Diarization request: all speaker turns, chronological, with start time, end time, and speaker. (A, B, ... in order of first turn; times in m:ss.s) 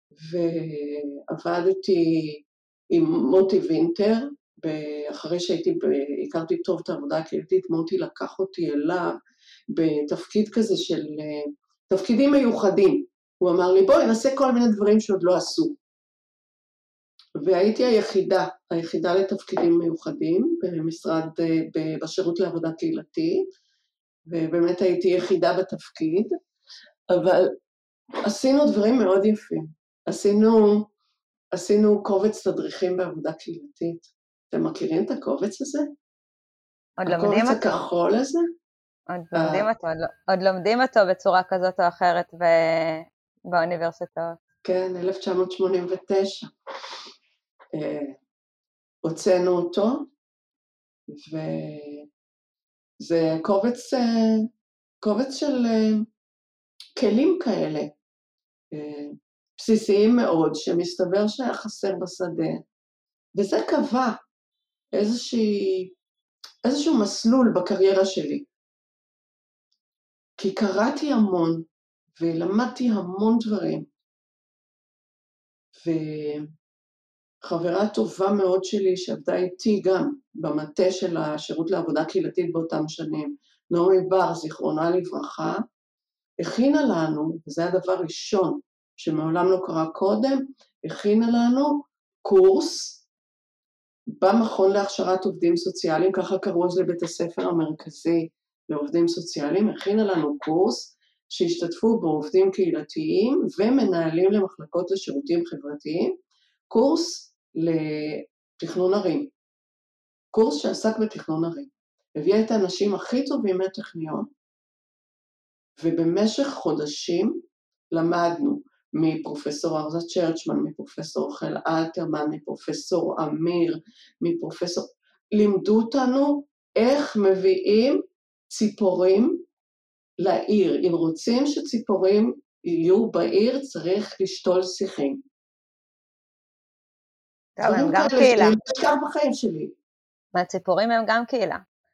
0:00.2-0:09.1 A
0:09.7-0:15.8 A
0:17.4-0:23.4 A
0:24.3-0:26.3 A
0:27.1-0:27.6 A
0:28.2-0:30.9 A
0:31.5-0:35.9 A
0:37.0-0:37.7 B
0:37.0-0:38.4 A
0:39.1-0:44.4 B
0:39.3-0:39.6 A
0:44.6-0:46.5 A
0:47.7-0:48.2 A
0:49.0-0:50.0 A
0:51.1-0:52.1 A
0:53.0-0:54.5 A
0:55.0-0:56.0 A
0:57.0-0:57.9 A
0:58.7-1:02.6 A
1:03.3-1:04.2 A
1:04.9-1:05.9 A
1:06.6-1:08.5 A
1:10.4-1:11.7 A
1:12.2-1:13.8 A
1:15.8-1:16.5 A
1:17.4-1:25.6 A
1:26.4-1:33.0 A
1:34.2-1:46.1 A
1:46.7-1:49.3 A
1:50.3-1:54.3 A
1:55.8-1:57.4 A
1:57.9-2:09.4 A
2:10.2-2:15.2 A
2:17.6-2:18.6 B
2:17.6-2:19.7 A
2:20.3-2:21.6 B